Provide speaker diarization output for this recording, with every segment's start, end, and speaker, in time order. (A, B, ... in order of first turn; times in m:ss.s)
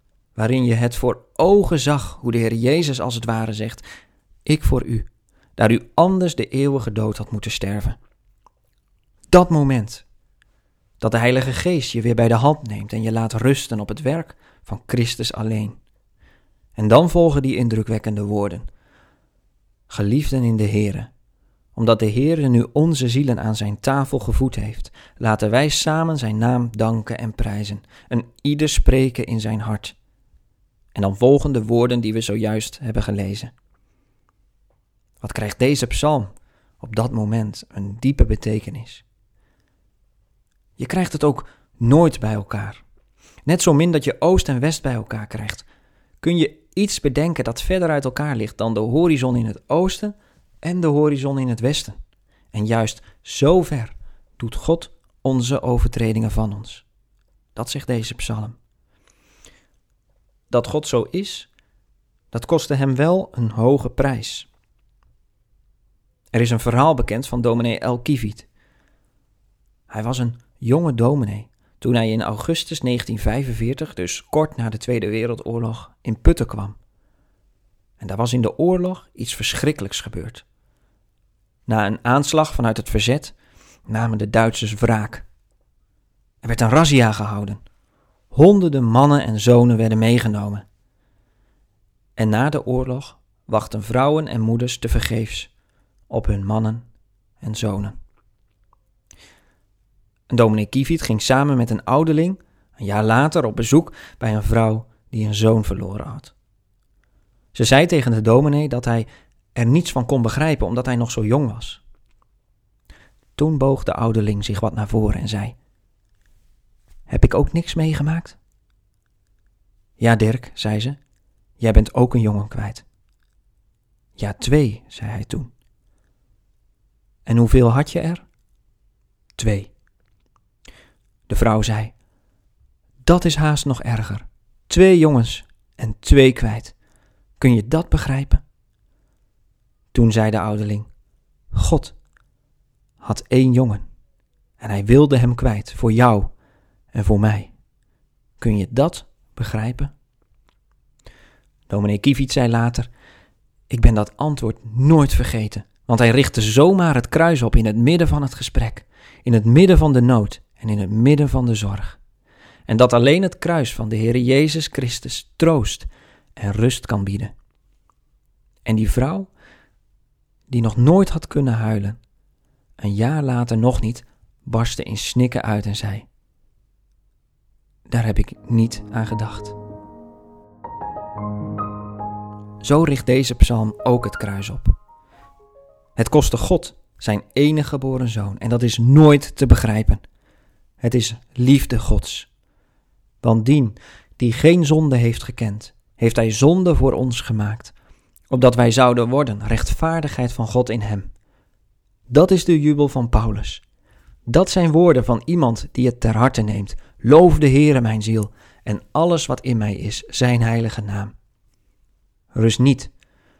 0:00.3-0:03.8 A
0:04.4-0:08.0 A
0:09.3-0:10.0 A
0:11.0-0:15.8 A
0:16.8-0:18.7 A
0:19.9-0:21.1 A
0:21.7-0:30.0 A
0:30.9-0:33.5 A
0:35.2-0:39.0 A
0:40.8-0:42.8 A
0:43.4-0:45.7 A
0:46.2-0:52.0 A
0:52.5-0:56.8 A
0:57.5-0:58.6 A
1:00.5-1:01.5 A
1:02.3-1:04.5 A
1:06.3-1:08.5 A
1:09.9-1:16.8 A
1:18.0-1:20.4 A
1:21.7-1:23.3 A
1:23.9-1:25.2 A
1:26.4-1:27.6 A
1:28.3-1:30.6 A
1:32.2-1:35.5 A
1:36.1-1:36.8 A
1:37.4-1:38.0 A
1:40.3-1:46.3 A
1:47.5-1:51.8 A
1:53.4-1:55.6 A
1:57.1-1:58.4 A
2:00.0-2:01.0 A
2:01.6-2:02.8 A
2:04.2-2:05.5 A
2:07.2-2:08.2 A
2:09.4-2:09.7 A
2:11.3-2:11.9 A
2:13.0-2:16.7 A
2:17.4-2:18.4 A
2:19.9-2:20.9 A
2:21.5-2:22.0 A
2:23.0-2:23.8 A
2:24.6-2:26.3 A
2:26.9-2:27.5 A
2:28.4-2:29.9 A
2:31.7-2:32.9 A
2:33.7-2:42.0 A
2:42.7-2:47.3 A
2:48.6-2:49.3 A
2:50.5-2:52.0 A
2:52.8-2:56.1 A
2:57.9-2:59.5 A
3:02.6-3:04.7 A
3:06.0-3:10.0 A
3:10.8-3:12.3 A
3:13.2-3:17.7 A
3:18.3-3:21.1 A
3:22.1-3:23.6 A
3:24.3-3:31.1 A
3:32.3-3:32.9 A